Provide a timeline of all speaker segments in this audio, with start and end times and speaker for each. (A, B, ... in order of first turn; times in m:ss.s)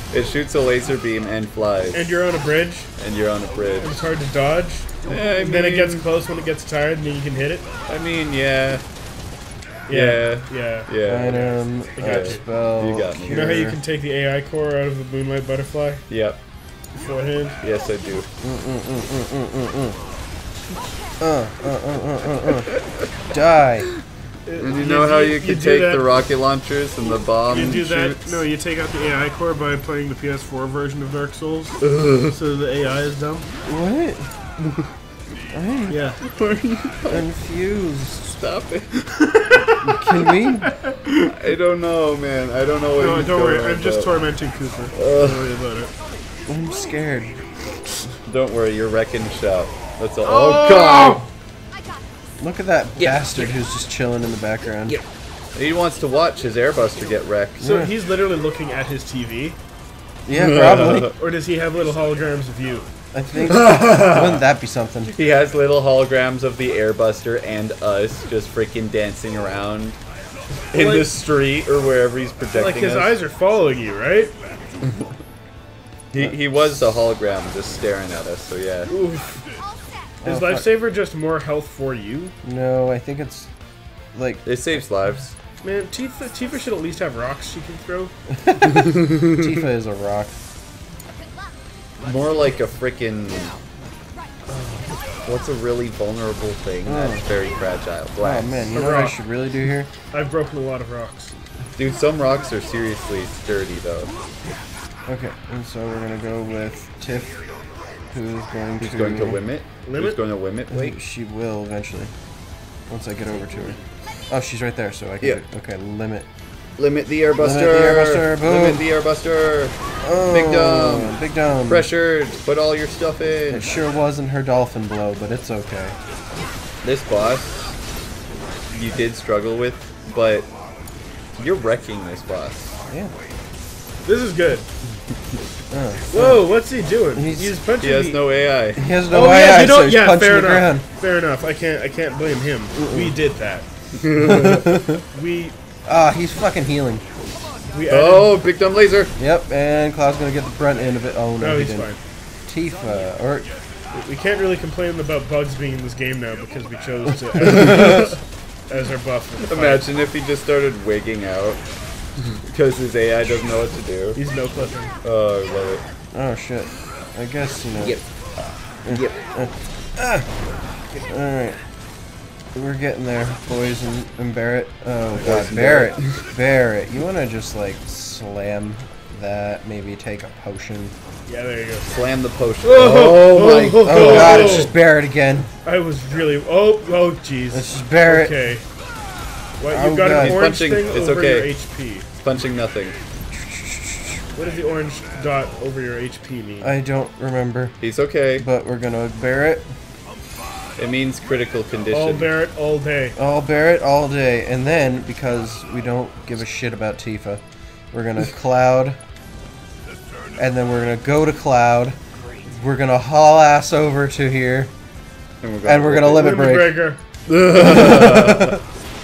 0:00.1-0:02.2 A
0:01.9-0:02.9 B
0:03.0-0:04.1 A
0:03.8-0:07.7 B
0:05.0-0:06.1 A
0:07.9-0:08.8 A
0:09.9-0:12.4 B
0:09.9-0:13.8 A
0:11.0-0:13.8 C
0:13.3-0:16.0 B
0:16.1-0:16.4 A
0:17.0-0:17.6 B
0:17.6-0:18.3 A
0:18.4-0:20.0 C
0:21.2-0:22.8 C
0:23.3-0:23.9 C
0:24.5-0:26.2 B
0:24.6-0:28.4 A
0:27.5-0:33.5 B
0:31.8-0:32.4 A
0:33.6-0:34.3 C
0:35.5-0:36.0 C
0:35.9-0:36.2 B
0:36.2-0:37.2 A
0:37.1-0:38.4 C
0:38.4-0:39.2 A
0:39.2-0:40.0 B
0:39.9-0:40.7 C
0:40.7-0:41.3 B
0:41.2-0:44.2 A
0:43.0-0:45.9 B
0:44.9-0:45.5 A
0:46.5-0:47.4 C
0:48.2-0:51.3 A
0:50.2-0:51.3 B
0:52.4-0:55.0 C
0:53.0-0:53.6 A
0:54.9-0:57.7 A
0:57.6-0:57.9 C
0:57.6-0:59.6 B
1:00.3-1:01.1 C
1:00.3-1:01.1 A
1:00.7-1:02.9 B
1:03.1-1:05.2 C
1:03.5-1:04.4 A
1:05.1-1:10.0 A
1:10.7-1:13.1 A
1:10.7-1:11.1 B
1:12.6-1:14.3 B
1:14.8-1:15.1 A
1:16.1-1:18.9 A
1:18.9-1:19.4 B
1:20.2-1:20.7 C
1:20.2-1:22.3 B
1:22.4-1:23.5 C
1:24.2-1:24.5 C
1:24.4-1:25.4 A
1:25.6-1:28.1 B
1:28.3-1:30.3 C
1:28.8-1:29.4 A
1:32.0-1:33.6 A
1:35.2-1:38.6 A
1:36.8-1:37.2 C
1:38.2-1:39.9 C
1:38.7-1:39.2 B
1:40.1-1:41.3 B
1:41.8-1:44.1 A
1:45.1-1:47.4 C
1:48.1-1:49.4 C
1:48.8-1:51.0 A
1:49.8-1:50.2 B
1:50.7-1:52.1 C
1:52.9-1:56.3 C
1:56.8-1:59.8 A
1:57.4-1:58.8 C
2:00.0-2:01.9 C
2:00.3-2:03.8 A
2:03.5-2:06.0 C
2:06.8-2:07.8 A
2:08.7-2:10.5 A
2:11.4-2:12.8 A
2:12.9-2:13.1 C
2:14.0-2:14.7 B
2:15.7-2:16.5 C
2:16.1-2:18.2 B
2:17.1-2:17.6 C
2:17.8-2:18.9 A
2:18.8-2:20.9 C
2:19.1-2:23.7 B
2:22.8-2:23.2 C
2:24.0-2:24.8 A
2:24.2-2:25.0 C
2:25.1-2:25.6 B
2:25.9-2:27.0 C
2:27.7-2:28.4 B
2:27.9-2:29.2 A
2:29.2-2:31.9 C
2:31.4-2:32.0 B
2:32.5-2:33.5 C
2:33.9-2:39.9 B
2:37.4-2:38.1 C
2:37.4-2:38.2 A
2:39.4-2:41.6 A
2:42.2-2:44.2 A
2:44.2-2:45.0 B
2:45.0-2:45.8 A
2:46.1-2:48.0 C
2:47.8-2:48.0 A
2:48.8-2:50.3 C
2:48.9-2:49.2 A
2:51.1-2:51.6 C
2:52.5-3:00.9 C
2:55.1-2:56.2 A
3:01.3-3:01.9 B
3:01.8-3:04.8 A
3:02.6-3:04.8 B
3:03.8-3:05.5 C
3:05.6-3:08.6 B
3:07.5-3:08.4 C
3:09.6-3:12.1 B
3:09.7-3:10.5 C
3:10.1-3:11.5 A
3:12.2-3:13.0 A
3:13.3-3:14.2 C
3:14.4-3:16.7 B
3:16.6-3:17.8 C
3:17.8-3:18.5 A
3:18.4-3:19.7 C
3:20.8-3:22.4 A
3:21.9-3:23.2 B
3:23.2-3:29.0 C
3:30.4-3:34.7 C
3:35.4-3:36.4 A
3:35.6-3:36.8 C
3:36.1-3:37.0 B
3:37.3-3:38.6 A
3:37.5-3:38.6 C